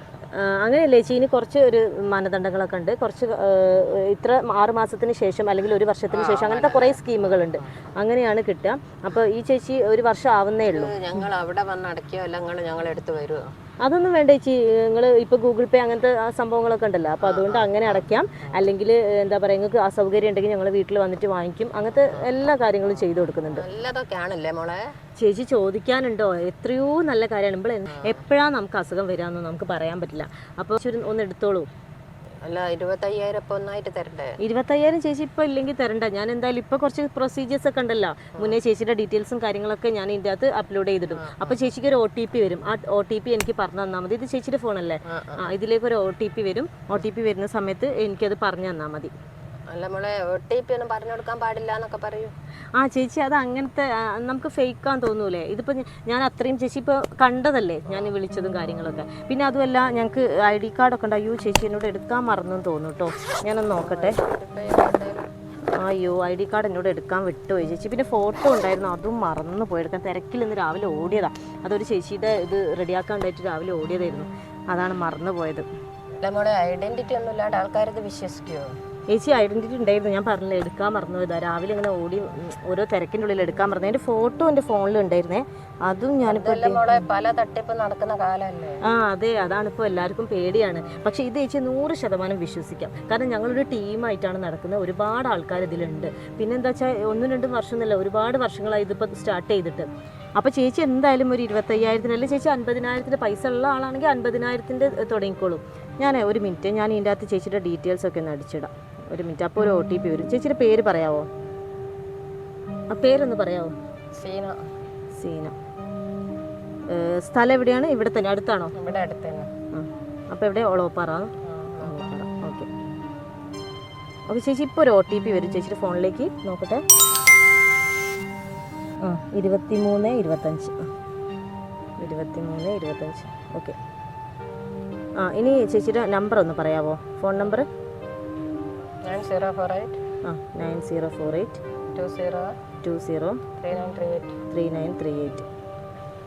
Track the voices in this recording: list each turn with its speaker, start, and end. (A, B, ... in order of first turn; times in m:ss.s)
0:00.3-0:10.9 A
0:06.1-0:07.6 B
0:10.6-0:13.5 B
0:13.8-0:23.7 A
0:17.2-0:18.7 B
0:21.9-0:22.3 B
0:23.5-0:24.8 B
0:25.2-0:31.7 A
0:27.9-0:28.2 B
0:32.4-0:34.4 B
0:34.4-0:49.1 A
0:41.1-0:41.6 B
0:45.1-0:45.6 B
0:49.7-0:52.3 B
0:52.8-1:04.2 A
1:03.8-1:05.2 B
1:05.8-1:15.7 A
1:16.2-1:18.8 B
1:19.1-1:27.0 A
1:26.2-1:28.8 B
1:28.8-1:51.3 A
1:52.9-1:53.7 A
1:54.2-1:54.6 B
1:55.2-1:55.6 A
1:56.9-1:58.7 A
1:58.8-1:59.5 B
1:59.7-2:01.3 A
2:01.4-2:02.0 B
2:01.8-2:02.7 A
2:04.3-2:06.8 A
2:09.0-2:10.9 A
2:12.0-2:13.8 A
2:15.2-2:17.7 A
2:19.1-2:20.0 B
2:20.2-2:21.6 A
2:21.9-2:22.5 B
2:22.8-2:23.4 A
2:23.6-2:24.4 B
2:24.5-2:25.5 A